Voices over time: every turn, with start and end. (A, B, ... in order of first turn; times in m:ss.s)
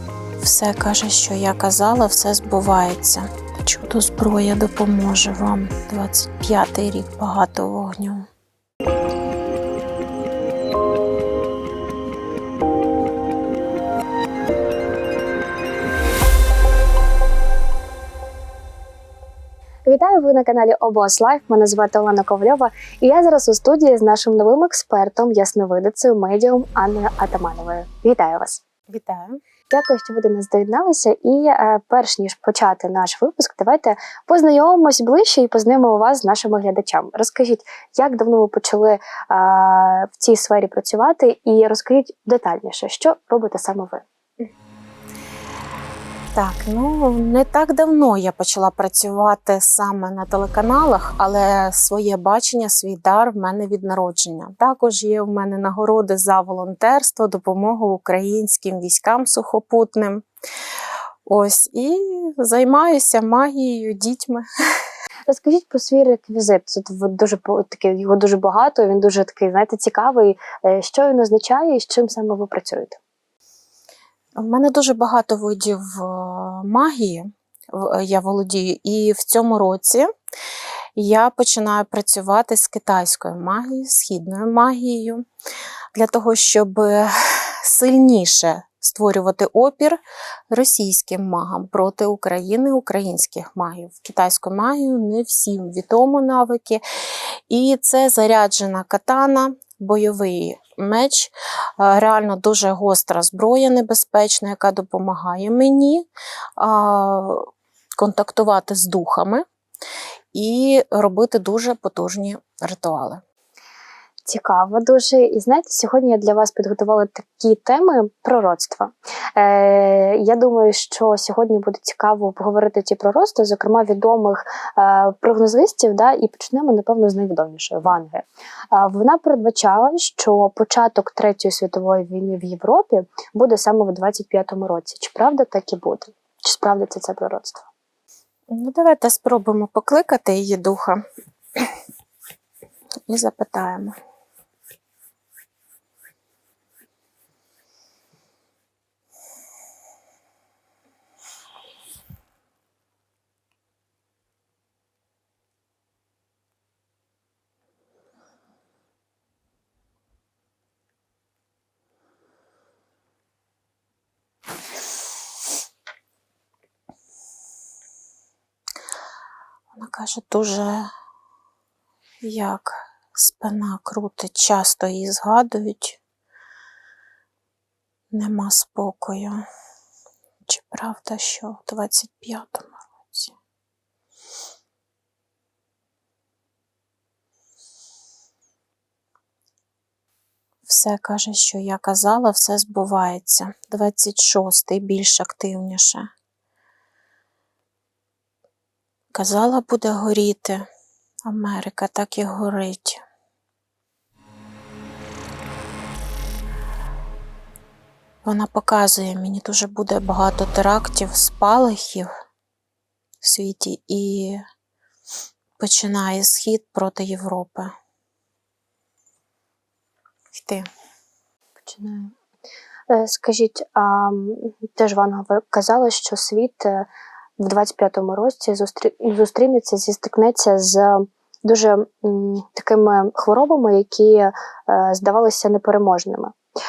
0:00.4-0:08.2 A
0:19.8-0:28.6 B
0:28.9-0:29.4 A
0:29.7-0:44.0 B
0:46.3-1:00.2 A
1:01.2-1:04.4 A
1:05.3-1:13.0 B
1:14.4-1:20.1 A
1:21.0-1:25.2 A
1:25.9-1:47.4 A
1:48.0-1:49.4 A
1:50.3-1:53.2 A
1:54.2-2:17.7 B
2:18.5-2:21.0 A
2:23.1-2:23.9 A
2:49.7-2:50.9 A
2:52.2-2:56.0 A
2:58.1-2:59.4 A
3:00.5-3:03.4 A
3:10.7-3:16.0 A
3:19.1-3:20.6 A
3:21.2-3:23.0 A
3:28.2-3:32.1 A
3:33.2-3:34.4 A
3:35.6-3:37.7 A
3:40.3-3:40.6 A
3:41.6-3:42.1 B
3:42.9-3:56.3 B